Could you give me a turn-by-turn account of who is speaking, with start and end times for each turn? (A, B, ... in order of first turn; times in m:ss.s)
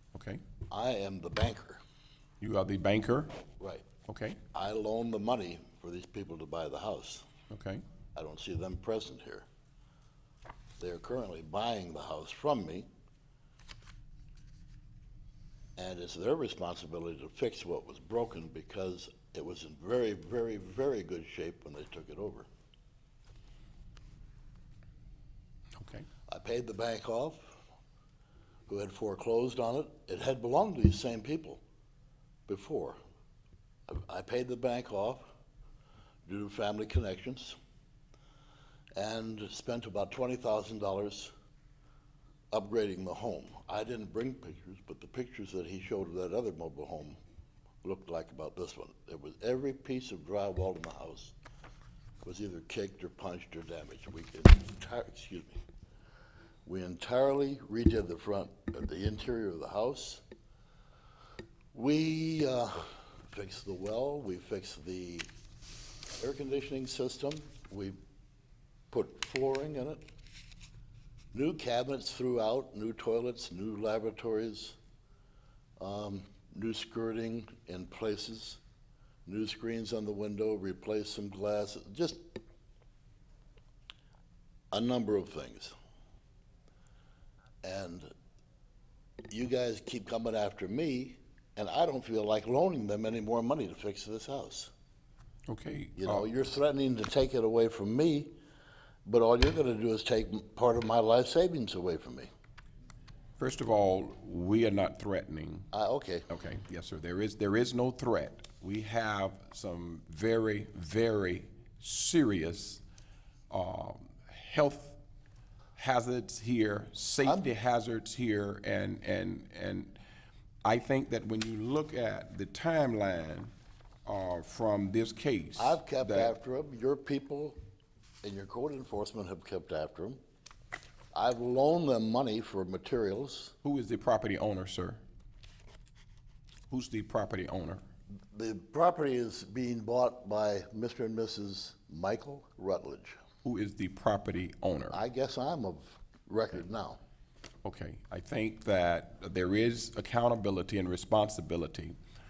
0:00.1-0:00.4 A
0:00.7-0:01.8 B
0:02.4-0:03.4 A
0:03.6-0:03.8 B
0:04.1-0:04.4 A
0:04.5-0:07.3 B
0:07.5-0:07.8 A
0:08.1-0:09.5 B
0:10.8-0:12.9 B
0:15.8-0:22.5 B
0:25.8-0:26.1 A
0:26.3-0:27.6 B
0:28.7-0:31.6 B
0:32.5-0:33.0 B
0:33.9-0:35.2 B
0:36.2-0:37.6 B
0:39.0-0:41.3 B
0:42.5-0:47.2 B
0:47.8-0:51.3 B
0:52.2-0:55.6 B
0:56.7-1:00.2 B
1:01.7-1:05.3 B
1:06.2-1:08.0 B
1:08.9-1:10.0 B
1:11.3-1:14.8 B
1:15.8-1:18.6 B
1:19.2-1:22.2 B
1:24.7-1:25.7 B
1:27.6-1:28.1 B
1:29.3-1:34.7 B
1:35.5-1:36.3 A
1:36.0-1:38.3 B
1:39.0-1:42.3 B
1:43.4-1:45.7 A
1:45.7-1:46.3 B
1:46.3-1:52.8 A
1:53.5-1:55.0 A
1:55.8-2:00.0 A
2:00.6-2:03.5 A
2:04.0-2:06.3 A
2:05.6-2:07.6 B
2:08.2-2:10.2 B
2:11.1-2:13.5 B
2:13.6-2:15.0 A
2:16.7-2:17.8 A
2:18.3-2:23.2 B
2:23.4-2:25.0 A
2:24.9-2:27.0 B
2:27.6-2:32.0 A